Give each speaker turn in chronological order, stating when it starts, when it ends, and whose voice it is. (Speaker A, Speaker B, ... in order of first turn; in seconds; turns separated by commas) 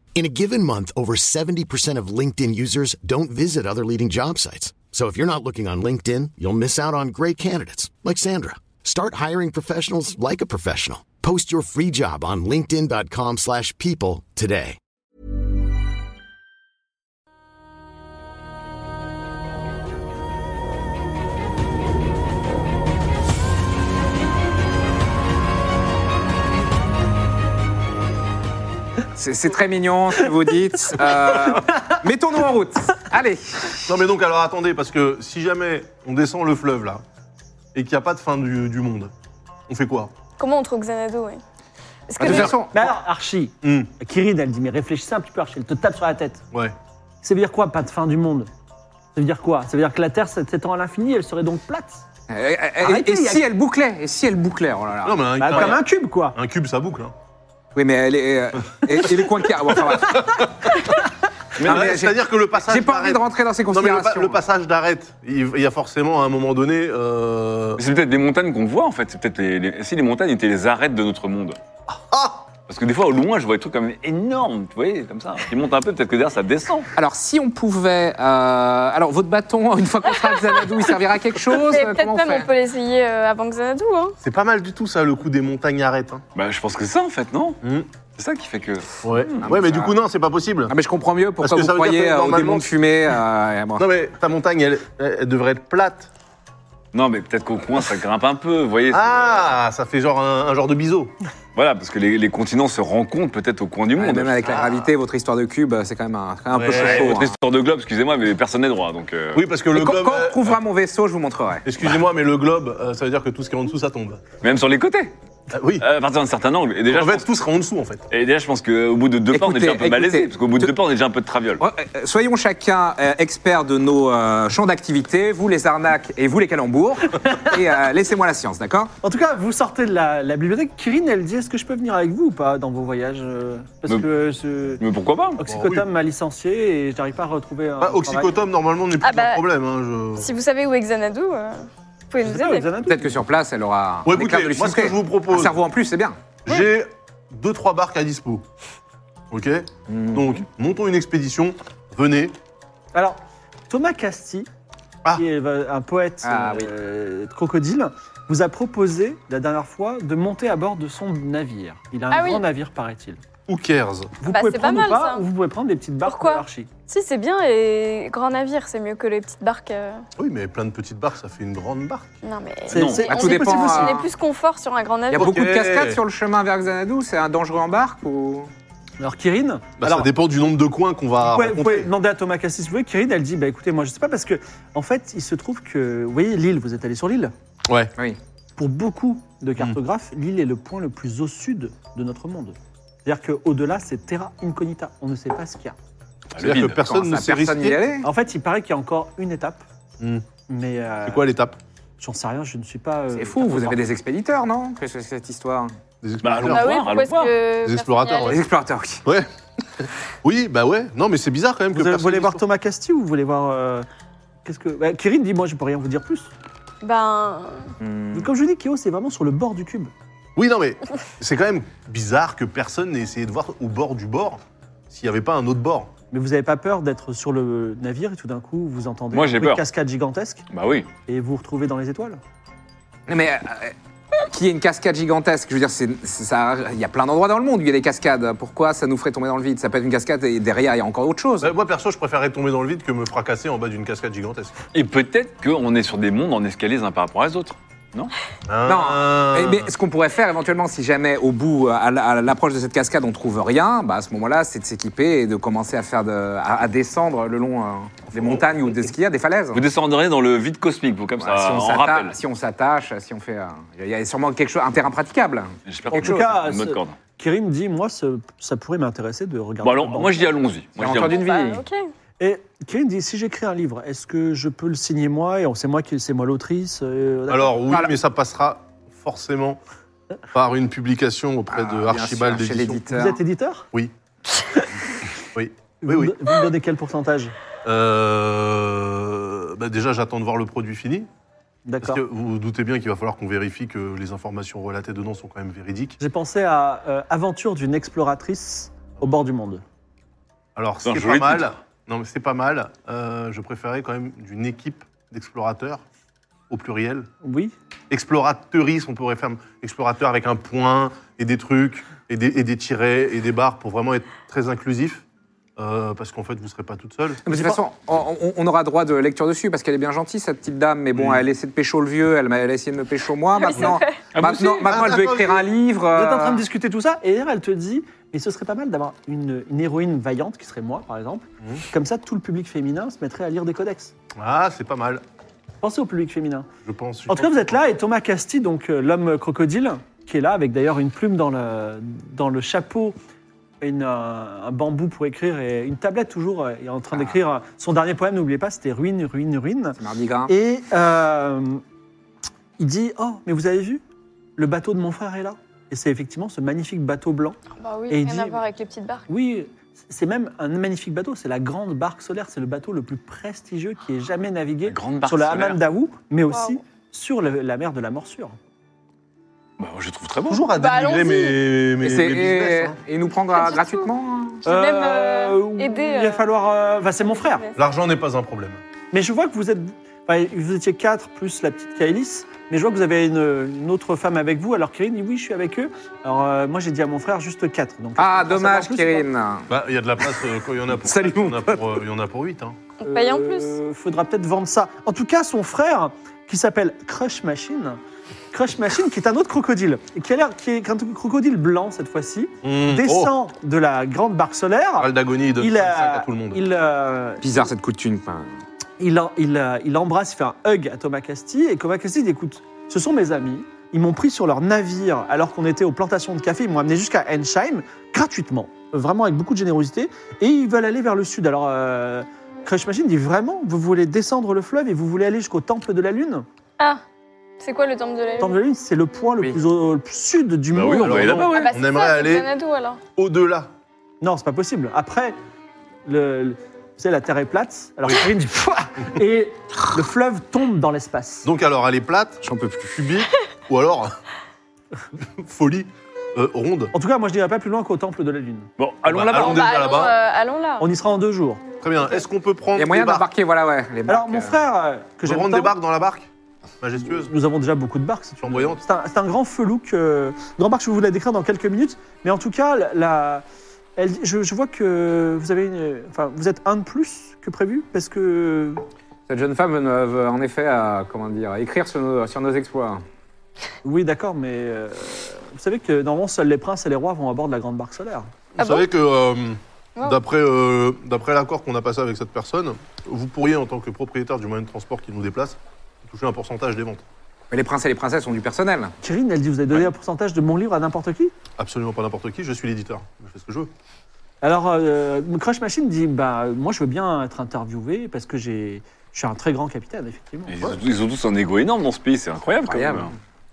Speaker A: 0.1-14.8, Speaker B: 29.2-33.9, Speaker C: 33.9-37.0, Speaker C: 37.7-39.1, Speaker C: 39.7-40.1, Speaker D: 40.4-41.4, Speaker D: 42.1-42.5, Speaker B: 42.2-42.9, Speaker C: 42.2-42.5, Speaker E: 42.3-46.4, Speaker C: 43.6-43.9, Speaker E: 47.2-48.5, Speaker E: 49.1-52.0, Speaker B: 52.3-55.8, Speaker E: 52.8-53.5, Speaker C: 55.0-57.1, Speaker E: 55.4-56.4, Speaker B: 57.7-60.7, Speaker C: 59.9-60.7, Speaker F: 61.6-62.0, Speaker B: 61.6-64.4, Speaker C: 61.6-67.8, Speaker F: 67.8-71.6, Speaker C: 71.9-72.5, Speaker F: 72.7-76.9, Speaker B: 77.0-82.5, Speaker D: 81.5-84.2, Speaker C: 84.2-86.2, Speaker F: 86.3-87.6, Speaker C: 87.6-87.9, Speaker F: 88.2-88.9, Speaker C: 89.0-90.7, Speaker B: 89.4-90.0, Speaker B: 90.7-93.9, Speaker C: 91.4-92.7, Speaker C: 93.8-96.1, Speaker F: 96.9-99.6, Speaker C: 98.9-101.2, Speaker F: 101.5-104.5, Speaker B: 104.0-107.3, Speaker C: 104.5-104.8, Speaker C: 106.5-107.2, Speaker F: 106.7-109.4, Speaker C: 109.3-110.5, Speaker B: 109.7-111.7, Speaker C: 111.7-114.2, Speaker F: 114.4-115.1, Speaker C: 115.5-115.8, Speaker F: 115.8-117.4, Speaker C: 116.9-118.1, Speaker F: 118.1-121.6, Speaker B: 119.3-120.7, Speaker B: 121.6-128.9, Speaker E: 129.0-134.8, Speaker F: 134.8-135.4, Speaker E: 135.4-138.4, Speaker C: 135.4-135.9, Speaker C: 137.8-140.3, Speaker D: 139.0-139.4, Speaker D: 140.2-142.7, Speaker E: 142.2-143.1, Speaker B: 142.9-146.2, Speaker C: 144.1-145.6, Speaker C: 146.5-148.4, Speaker C: 149.3-152.4, Speaker B: 149.9-150.4, Speaker E: 152.9-154.5, Speaker E: 155.2-163.2, Speaker B: 156.2-156.7, Speaker D: 162.1-162.4, Speaker C: 163.5-164.2, Speaker E: 164.2-166.7, Speaker D: 164.3-165.3, Speaker D: 166.0-170.0, Speaker C: 170.2-172.1, Speaker D: 172.2-175.4, Speaker E: 172.7-174.1, Speaker F: 172.7-173.1, Speaker B: 173.1-174.0, Speaker B: 175.1-178.5, Speaker C: 175.2-176.0, Speaker E: 179.0-180.1, Speaker C: 179.8-181.9, Speaker E: 181.2-187.3, Speaker C: 187.7-187.9, Speaker E: 188.6-195.8, Speaker F: 196.3-196.8, Speaker C: 196.4-197.8, Speaker B: 196.6-198.1, Speaker E: 198.0-199.6, Speaker C: 200.0-200.2, Speaker E: 200.5-201.2, Speaker C: 201.1-201.6, Speaker E: 202.0-203.8, Speaker B: 203.1-205.7, Speaker C: 206.0-206.8, Speaker F: 206.2-207.3, Speaker D: 206.4-208.4, Speaker C: 207.6-208.4, Speaker B: 208.3-209.1, Speaker C: 209.8-212.4, Speaker E: 211.7-213.9, Speaker E: 214.4-216.3, Speaker D: 216.8-217.7, Speaker B: 217.8-218.3, Speaker E: 218.1-219.9, Speaker C: 220.4-225.9, Speaker E: 226.1-230.5, Speaker F: 229.1-229.7, Speaker F: 230.5-230.9, Speaker E: 231.1-232.2, Speaker B: 233.1-241.6, Speaker C: 241.4-244.6, Speaker F: 244.7-248.1, Speaker C: 248.5-249.7, Speaker B: 248.6-259.6, Speaker C: 258.1-258.7, Speaker F: 259.5-262.1, Speaker B: 261.2-266.2, Speaker F: 265.7-267.0, Speaker E: 265.9-270.3, Speaker F: 269.6-271.2, Speaker B: 270.8-271.6, Speaker D: 270.9-271.8, Speaker E: 272.2-277.6, Speaker C: 277.3-279.6, Speaker B: 277.7-278.0, Speaker C: 280.3-282.8, Speaker B: 281.5-283.2, Speaker E: 282.9-283.7, Speaker C: 285.4-286.4, Speaker E: 285.8-287.4, Speaker C: 287.6-291.1, Speaker E: 291.7-292.0, Speaker C: 291.8-296.0, Speaker E: 296.0-299.6, Speaker C: 300.6-305.8, Speaker F: 300.9-301.5, Speaker C: 306.5-307.1, Speaker E: 307.2-307.6, Speaker C: 307.9-315.0, Speaker C: 315.6-317.2, Speaker B: 317.2-326.4, Speaker E: 317.3-317.6, Speaker C: 320.9-321.2, Speaker D: 323.4-324.0, Speaker F: 324.1-324.8, Speaker C: 324.6-325.5, Speaker E: 325.9-333.9, Speaker C: 334.2-335.0, Speaker E: 335.6-336.5, Speaker C: 336.6-337.6, Speaker E: 337.1-343.0, Speaker E: 343.6-351.6, Speaker B: 349.8-350.3, Speaker E: 352.6-353.8, Speaker E: 354.4-357.4, Speaker D: 357.5-359.1, Speaker E: 357.9-358.4, Speaker E: 359.1-368.4, Speaker F: 364.7-365.6, Speaker D: 366.3-366.6, Speaker F: 369.6-370.5, Speaker C: 370.3-372.8, Speaker D: 370.5-371.4, Speaker B: 371.8-374.4, Speaker D: 373.3-373.9, Speaker D: 374.4-376.2, Speaker E: 374.5-377.4, Speaker D: 377.2-377.5, Speaker C: 377.6-378.6, Speaker E: 378.9-389.1, Speaker B: 388.0-391.8, Speaker C: 389.5-392.6, Speaker D: 392.8-393.6, Speaker E: 392.8-397.8, Speaker E: 398.3-407.2, Speaker C: 402.4-403.1, Speaker C: 404.8-406.4, Speaker B: 407.2-408.3, Speaker E: 408.8-426.3, Speaker D: 427.4-428.4, Speaker E: 428.2-431.2, Speaker F: 430.5-431.6, Speaker C: 430.8-432.3, Speaker D: 431.3-432.8, Speaker C: 433.0-433.5, Speaker E: 434.0-435.2, Speaker E: 435.9-441.3, Speaker C: 441.2-444.0, Speaker B: 442.2-442.9, Speaker C: 445.0-446.7, Speaker E: 446.7-448.5, Speaker F: 448.6-449.5, Speaker C: 448.9-450.0, Speaker D: 449.1-450.7, Speaker E: 450.6-451.4, Speaker C: 451.6-453.1, Speaker B: 452.6-454.4, Speaker E: 453.9-455.5, Speaker C: 455.1-456.1, Speaker C: 456.6-457.1, Speaker E: 456.8-463.2, Speaker C: 458.2-458.6, Speaker E: 463.8-468.6, Speaker B: 469.1-472.9, Speaker E: 473.6-478.1, Speaker C: 478.4-486.8, Speaker D: 478.4-478.7, Speaker B: 487.3-488.7, Speaker E: 488.8-491.1, Speaker C: 491.4-493.5, Speaker E: 494.2-500.4, Speaker F: 500.3-502.9, Speaker B: 502.4-502.9